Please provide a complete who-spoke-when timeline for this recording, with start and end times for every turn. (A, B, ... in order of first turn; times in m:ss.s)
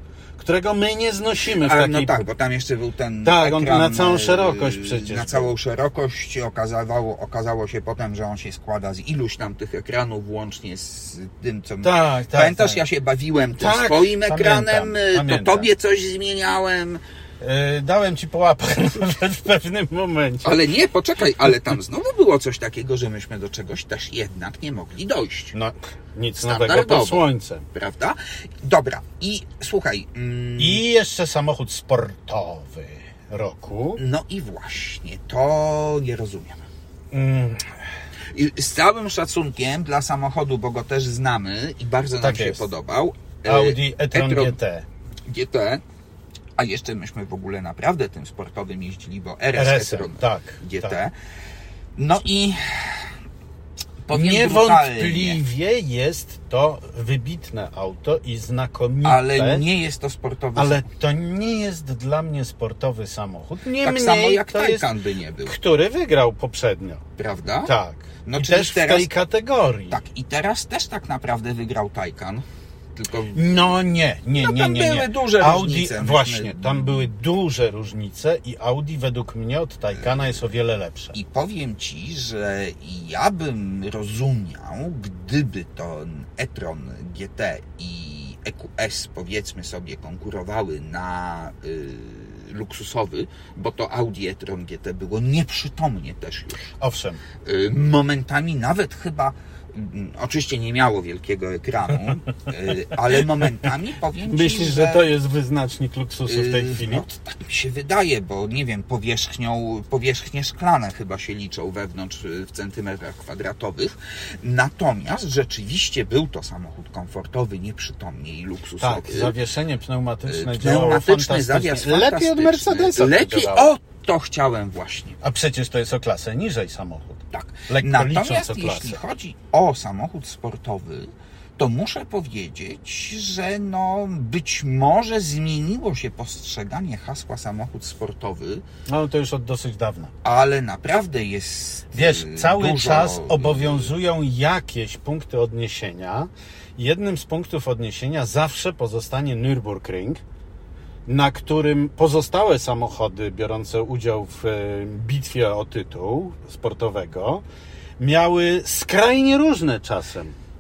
0:00.4-0:02.2 A
0:01.5-0:17.0 B
0:03.2-0:05.5 A
0:11.8-0:12.8 A
0:13.6-0:15.7 A
0:17.4-0:20.6 A
0:20.4-0:25.6 B
0:25.5-0:27.6 A
0:26.4-0:30.8 B
0:30.6-0:34.0 A
0:34.0-0:36.6 B
0:37.1-0:37.7 A
0:38.3-0:44.6 B
0:42.2-0:42.7 A
0:43.4-0:44.9 A
0:45.3-0:45.8 B
0:46.6-0:51.1 B
0:49.6-0:51.0 A
0:52.0-0:53.1 B
0:54.1-0:55.4 B
0:54.1-0:59.6 A
0:59.0-1:00.8 B
1:00.6-1:04.9 A
1:03.8-1:05.6 B
1:05.4-1:07.0 A
1:07.2-1:07.7 B
1:07.6-1:10.0 A
1:08.2-1:09.1 B
1:09.9-1:12.4 B
1:13.0-1:13.7 B
1:13.3-1:21.1 A
1:14.4-1:17.1 B
1:21.1-1:36.7 B
1:36.8-1:37.2 A
1:37.4-1:45.1 B
1:44.3-1:47.0 A
1:46.3-1:59.4 B
1:58.8-2:03.7 A
2:00.3-2:05.2 B
2:05.2-2:09.0 A
2:07.3-2:18.6 B
2:18.9-2:20.1 A
2:20.2-2:23.9 B
2:21.9-2:30.2 A
2:31.1-2:37.4 A
2:38.0-2:40.4 A